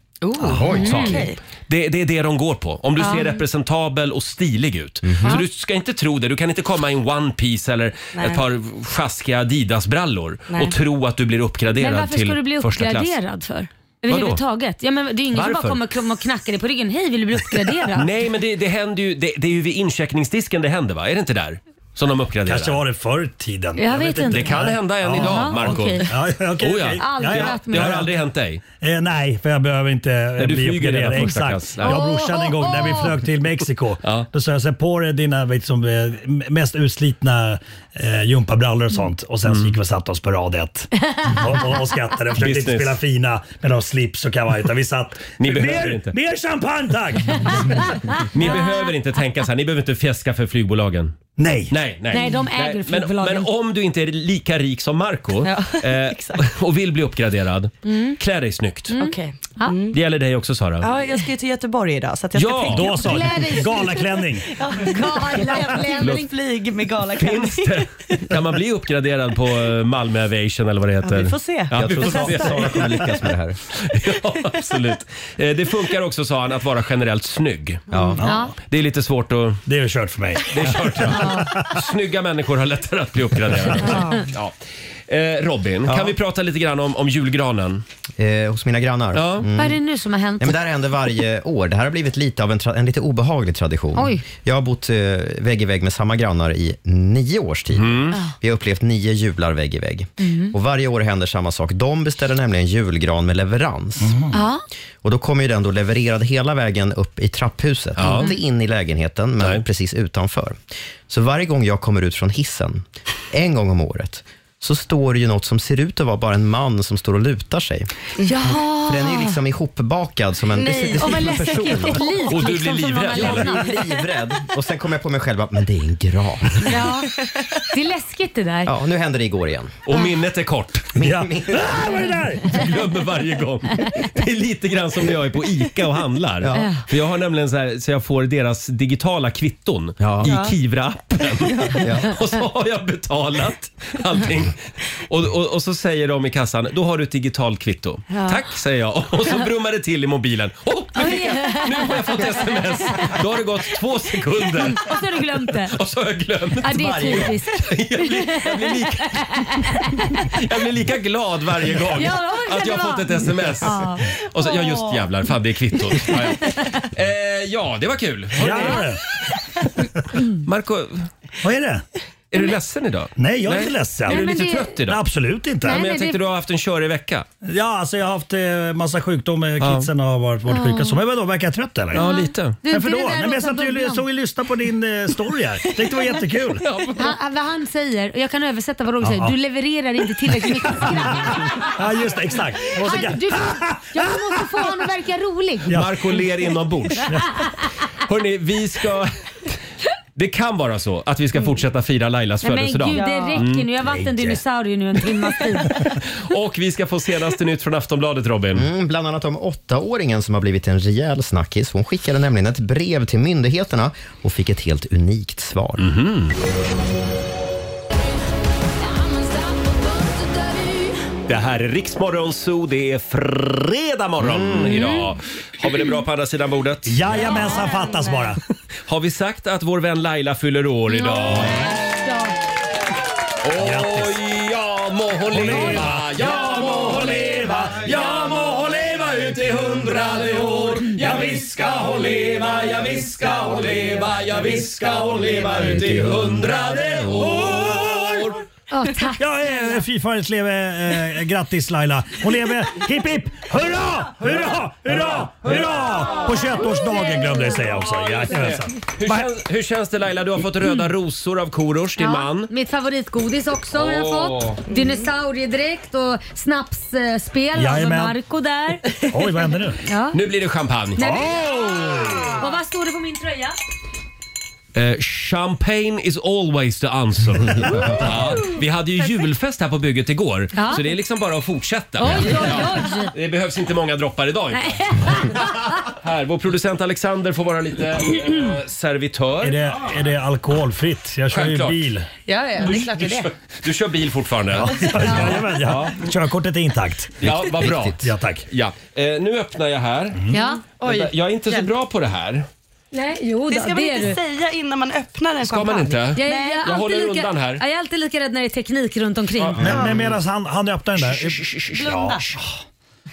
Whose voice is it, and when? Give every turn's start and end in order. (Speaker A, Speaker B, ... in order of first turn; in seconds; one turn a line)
Speaker A: 0.2-1.4
Speaker B: 0.4-1.1
Speaker C: 0.7-1.2
Speaker D: 0.7-13.1
Speaker C: 3.0-3.4
Speaker B: 5.0-5.4
Speaker A: 8.2-8.4
Speaker C: 11.8-18.1
Speaker D: 14.1-14.4
Speaker D: 15.3-15.8
Speaker D: 17.9-22.8
Speaker E: 22.4-28.1
Speaker C: 23.8-24.6
Speaker D: 24.3-28.6
Speaker C: 25.1-26.0
Speaker C: 27.0-28.0
Speaker E: 28.8-47.9
Speaker D: 30.4-32.0
Speaker C: 31.8-33.1
Speaker D: 39.5-39.7
Speaker C: 41.1-41.4
Speaker D: 42.4-43.0
Speaker D: 45.4-46.1
Speaker D: 48.3-51.2
Speaker C: 48.4-48.9
Speaker E: 51.4-51.8
Speaker D: 51.7-58.9
Speaker C: 52.1-53.5
Speaker A: 55.4-56.5
Speaker C: 57.8-58.2
Speaker C: 58.9-59.8
Speaker A: 59.0-60.0
Speaker D: 59.9-60.9
Speaker A: 60.8-63.9
Speaker D: 62.3-62.9
Speaker E: 62.7-64.5
Speaker C: 62.9-64.0
Speaker A: 64.5-68.3
Speaker C: 64.8-66.3
Speaker D: 67.2-73.0
Speaker A: 71.0-72.8
Speaker B: 71.7-73.6
Speaker D: 73.7-77.8
Speaker B: 77.9-78.2
Speaker E: 78.0-78.5
Speaker C: 78.2-78.5
Speaker D: 78.6-79.6
Speaker E: 79.7-81.7
Speaker D: 80.5-84.5
Speaker C: 81.1-81.5
Speaker E: 83.5-83.8
Speaker C: 83.9-84.1
Speaker A: 83.9-84.2
Speaker D: 85.1-87.8
Speaker B: 85.8-86.2
Speaker B: 88.2-89.8
Speaker D: 89.1-89.5
Speaker C: 89.5-90.5
Speaker B: 90.4-104.2
Speaker C: 93.9-94.2
Speaker D: 97.7-98.2
Speaker C: 100.2-100.5
Speaker E: 104.0-104.3
Speaker C: 104.3-104.6
Speaker B: 105.0-117.9
Speaker D: 108.0-108.3
Speaker C: 118.2-119.3
Speaker B: 118.4-122.3
Speaker A: 120.6-122.0
Speaker C: 120.9-123.8
Speaker D: 122.3-123.5
Speaker B: 123.1-126.8
Speaker C: 126.6-127.1
Speaker C: 127.7-128.7
Speaker B: 128.6-129.8
Speaker D: 129.8-130.9
Speaker B: 130.9-132.0
Speaker E: 131.0-132.6
Speaker D: 132.5-144.6
Speaker B: 136.4-136.7
Speaker C: 136.5-136.8
Speaker B: 140.0-140.3
Speaker A: 140.2-140.5
Speaker A: 141.5-141.8
Speaker B: 141.8-142.1
Speaker D: 145.1-154.9
Speaker A: 148.1-148.4
Speaker C: 150.9-153.1
Speaker C: 154.6-155.8
Speaker D: 155.7-159.4
Speaker C: 156.6-160.3
Speaker B: 156.7-157.3
Speaker D: 160.3-168.9
Speaker C: 161.9-164.1
Speaker A: 164.4-164.8
Speaker E: 168.3-169.0
Speaker D: 170.4-171.1
Speaker E: 171.4-171.8
Speaker D: 172.3-175.0
Speaker E: 173.2-174.3
Speaker C: 174.1-174.8
Speaker E: 174.8-175.8
Speaker C: 175.6-176.2
Speaker D: 175.7-177.2
Speaker E: 177.4-182.0
Speaker D: 179.6-179.9
Speaker C: 180.5-181.0
Speaker D: 181.9-182.6
Speaker C: 181.9-184.0
Speaker E: 182.6-186.7
Speaker D: 186.6-187.1
Speaker C: 186.9-191.6
Speaker E: 189.0-189.3
Speaker E: 190.4-194.7
Speaker C: 192.7-195.7
Speaker E: 195.6-196.2
Speaker D: 195.7-197.2
Speaker D: 198.0-199.5
Speaker D: 200.2-203.7
Speaker C: 202.4-205.8
Speaker A: 202.9-203.4
Speaker E: 203.9-204.3
Speaker D: 206.1-208.7
Speaker B: 208.5-215.9
Speaker D: 215.8-216.3
Speaker D: 221.3-227.3
Speaker B: 224.2-224.9
Speaker C: 224.6-225.1
Speaker E: 226.8-228.4
Speaker C: 227.3-228.1
Speaker D: 228.9-231.7
Speaker C: 230.9-232.3
Speaker D: 233.4-248.4
Speaker E: 233.6-234.2
Speaker E: 235.3-238.0
Speaker C: 235.5-235.8
Speaker E: 240.9-241.5
Speaker E: 247.0-248.2
Speaker C: 248.7-249.8
Speaker E: 249.2-259.3
Speaker D: 254.9-256.4
Speaker C: 256.7-257.9
Speaker D: 258.0-262.5
Speaker C: 262.0-268.9
Speaker D: 263.7-264.6
Speaker E: 267.5-268.1
Speaker E: 269.1-269.8
Speaker C: 269.8-270.2
Speaker D: 270.1-271.1
Speaker E: 271.0-272.3
Speaker C: 271.0-273.6
Speaker D: 274.7-289.6
Speaker C: 280.5-280.8
Speaker C: 282.0-283.1
Speaker C: 284.5-285.6
Speaker E: 289.4-292.1
Speaker D: 291.3-291.8
Speaker A: 292.3-293.3
Speaker D: 292.6-295.9
Speaker E: 294.5-298.4
Speaker D: 297.2-300.2
Speaker C: 300.3-300.6
Speaker A: 300.3-301.7
Speaker D: 300.8-302.5
Speaker C: 302.9-304.2
Speaker A: 303.5-306.6
Speaker D: 305.4-307.6
Speaker C: 306.1-309.7
Speaker D: 309.4-310.0
Speaker E: 309.6-312.5
Speaker D: 311.0-311.8
Speaker A: 311.7-312.3